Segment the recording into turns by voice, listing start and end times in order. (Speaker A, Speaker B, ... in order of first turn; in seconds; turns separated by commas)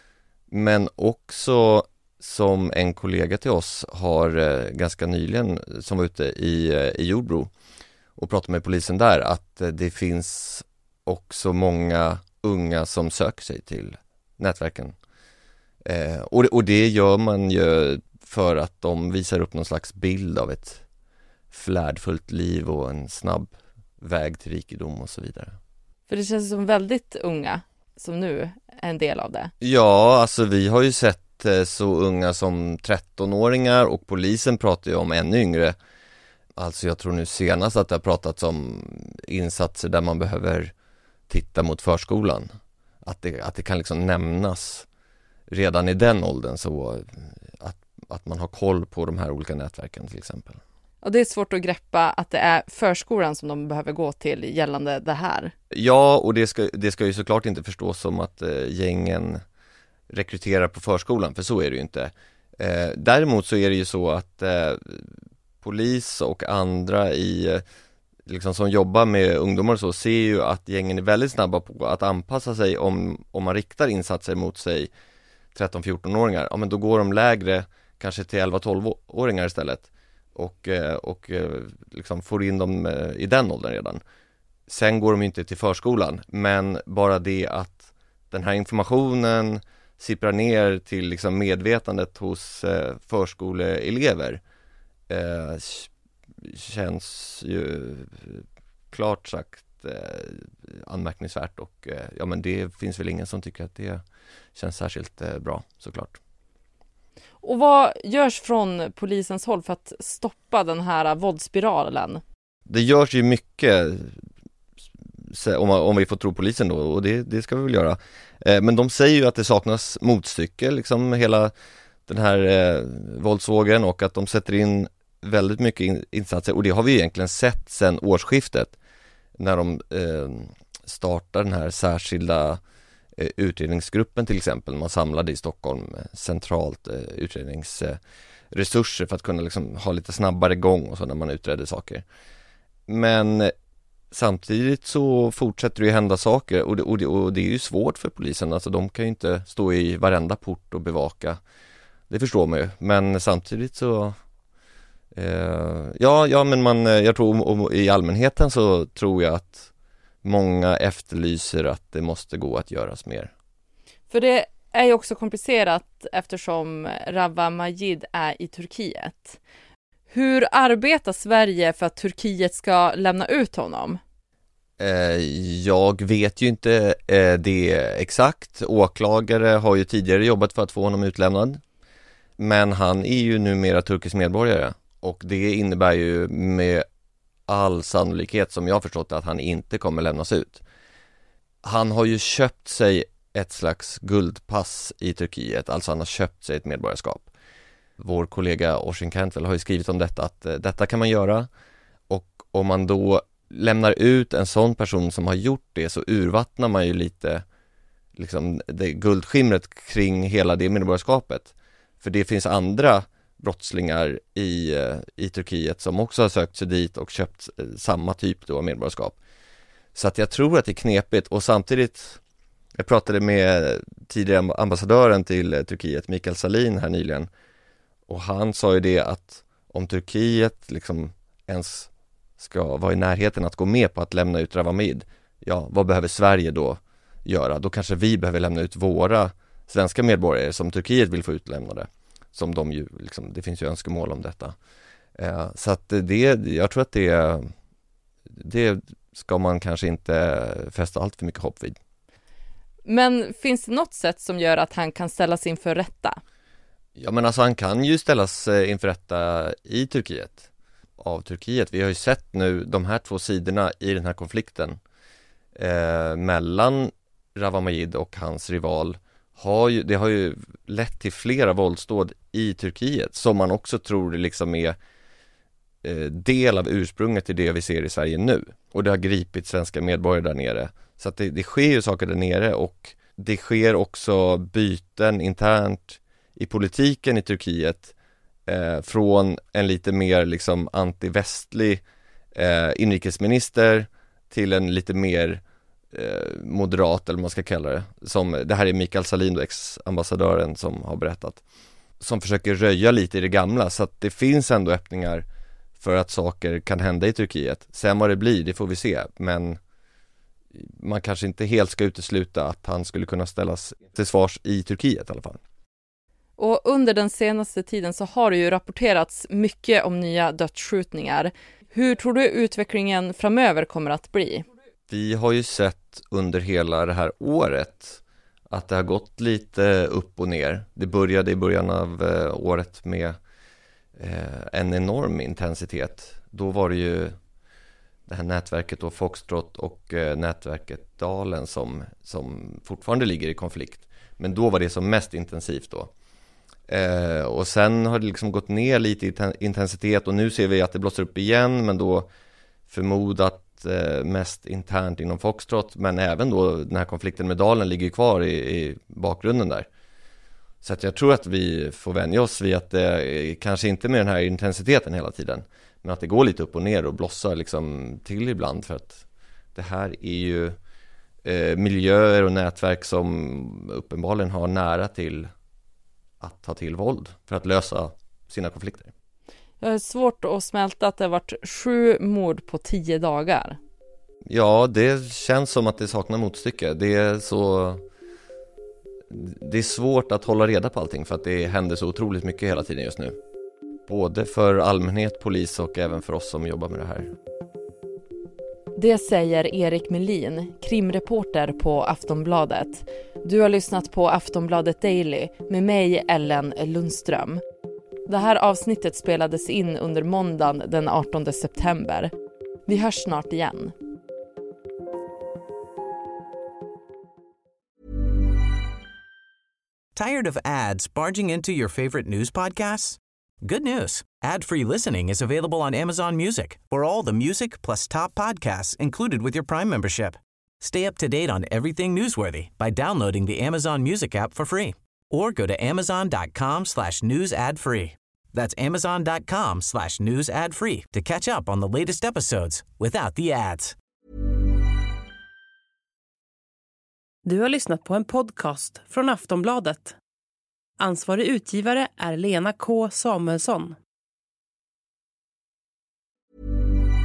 Speaker A: 0.5-7.5, Speaker A: 8.2-14.9, Speaker A: 15.8-20.8, Speaker A: 21.5-25.6, Speaker B: 26.1-29.5, Speaker A: 29.6-35.8, Speaker A: 36.6-40.7, Speaker A: 41.3-42.5, Speaker A: 43.0-44.9, Speaker A: 45.5-50.6, Speaker B: 51.0-55.5, Speaker A: 55.7-59.4, Speaker A: 60.1-67.6, Speaker A: 68.3-74.9, Speaker A: 75.5-84.0, Speaker A: 84.7-94.4, Speaker A: 95.1-95.9, Speaker A: 96.4-104.0, Speaker A: 104.5-106.2, Speaker B: 107.4-112.2, Speaker A: 112.7-114.2, Speaker A: 115.2-121.5, Speaker A: 122.1-128.7, Speaker A: 129.4-132.6, Speaker A: 133.2-138.0, Speaker A: 138.5-142.0, Speaker A: 142.9-143.5, Speaker A: 144.1-151.4, Speaker A: 152.1-154.1, Speaker A: 155.1-159.7, Speaker A: 160.2-163.3, Speaker B: 164.1-169.4, Speaker B: 170.1-174.0, Speaker A: 174.8-181.6, Speaker A: 182.4-186.8, Speaker A: 187.5-190.6, Speaker A: 191.6-197.3, Speaker A: 198.0-201.5, Speaker A: 202.1-207.4, Speaker A: 208.2-219.2, Speaker A: 219.9-222.2, Speaker A: 222.8-227.3, Speaker A: 228.1-244.5, Speaker A: 245.2-247.5, Speaker A: 248.4-251.8, Speaker B: 252.8-256.2, Speaker A: 257.0-260.5, Speaker A: 261.0-264.8, Speaker A: 265.6-274.8, Speaker A: 275.8-287.9, Speaker A: 288.5-291.8, Speaker A: 292.3-295.4, Speaker A: 295.9-301.4, Speaker A: 302.0-305.2, Speaker A: 305.8-309.6, Speaker A: 310.5-315.4, Speaker B: 316.4-324.4, Speaker A: 324.9-333.1, Speaker A: 334.0-337.1, Speaker A: 338.1-345.9, Speaker A: 346.7-352.1, Speaker A: 352.7-359.7, Speaker A: 360.6-369.0, Speaker A: 369.5-370.6, Speaker A: 371.2-375.3, Speaker A: 376.2-378.9, Speaker B: 379.6-383.6, Speaker A: 384.3-387.8, Speaker A: 389.1-393.2, Speaker A: 393.9-397.1, Speaker B: 398.8-407.4, Speaker B: 408.1-412.1, Speaker B: 412.6-413.7, Speaker C: 419.9-443.7, Speaker D: 447.2-450.0, Speaker D: 450.8-453.8